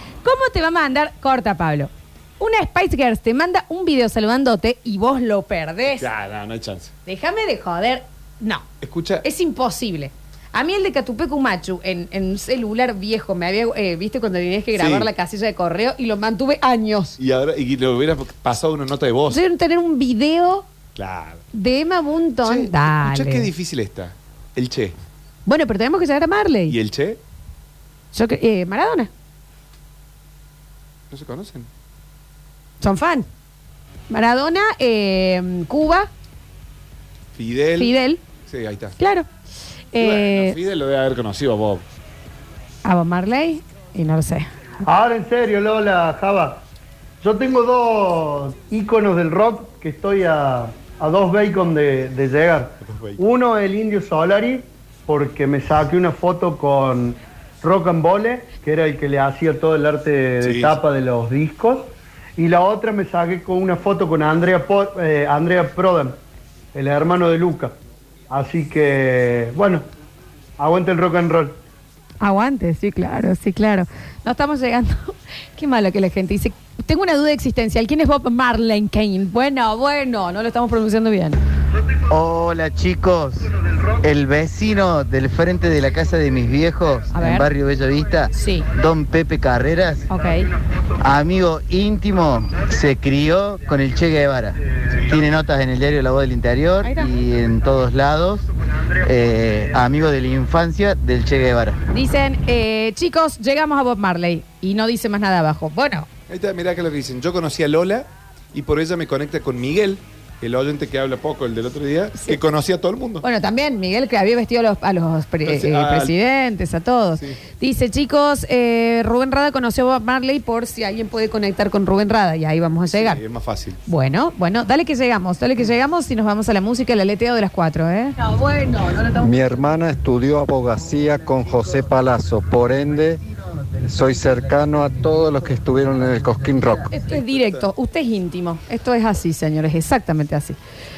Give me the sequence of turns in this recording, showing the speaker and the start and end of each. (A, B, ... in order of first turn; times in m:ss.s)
0:00.2-0:06.1 A
0:05.9-0:06.9 B
0:07.0-0:08.6 A
0:08.8-0:09.2 B
0:09.2-0:17.2 A
0:14.8-0:15.1 B
0:17.2-0:19.4 B
0:19.3-0:20.7 A
0:21.0-0:21.4 B
0:21.5-0:23.5 A
0:22.4-0:24.9 B
0:25.4-0:26.8 A
0:26.7-0:27.2 B
0:28.1-0:29.1 A
0:31.1-0:31.7 B
0:32.8-0:33.3 A
0:34.1-0:36.1 A
0:37.3-0:39.0 B
0:37.8-0:38.2 A
0:39.0-0:39.3 A
0:39.9-0:40.6 A
0:40.0-0:41.8 B
0:42.8-0:44.5 A
0:44.8-0:46.6 C
0:47.2-1:06.2 C
0:52.8-0:53.2 B
1:00.4-1:00.8 B
1:06.7-1:07.7 C
1:08.3-1:09.8 C
1:10.6-1:11.6 C
1:12.2-1:21.4 A
1:22.1-1:23.5 D
1:24.0-1:30.1 D
1:27.1-1:27.5 A
1:28.3-1:28.6 A
1:30.1-1:30.5 A
1:31.0-1:38.5 D
1:36.8-1:37.1 A
1:39.0-1:41.8 D
1:41.9-1:46.1 A
1:46.3-1:53.2 B
1:53.2-2:03.2 A
1:55.4-1:56.1 B
2:02.9-2:03.8 B
2:03.9-2:08.8 A
2:09.1-2:13.2 E
2:13.8-2:16.9 E
2:16.9-2:20.6 A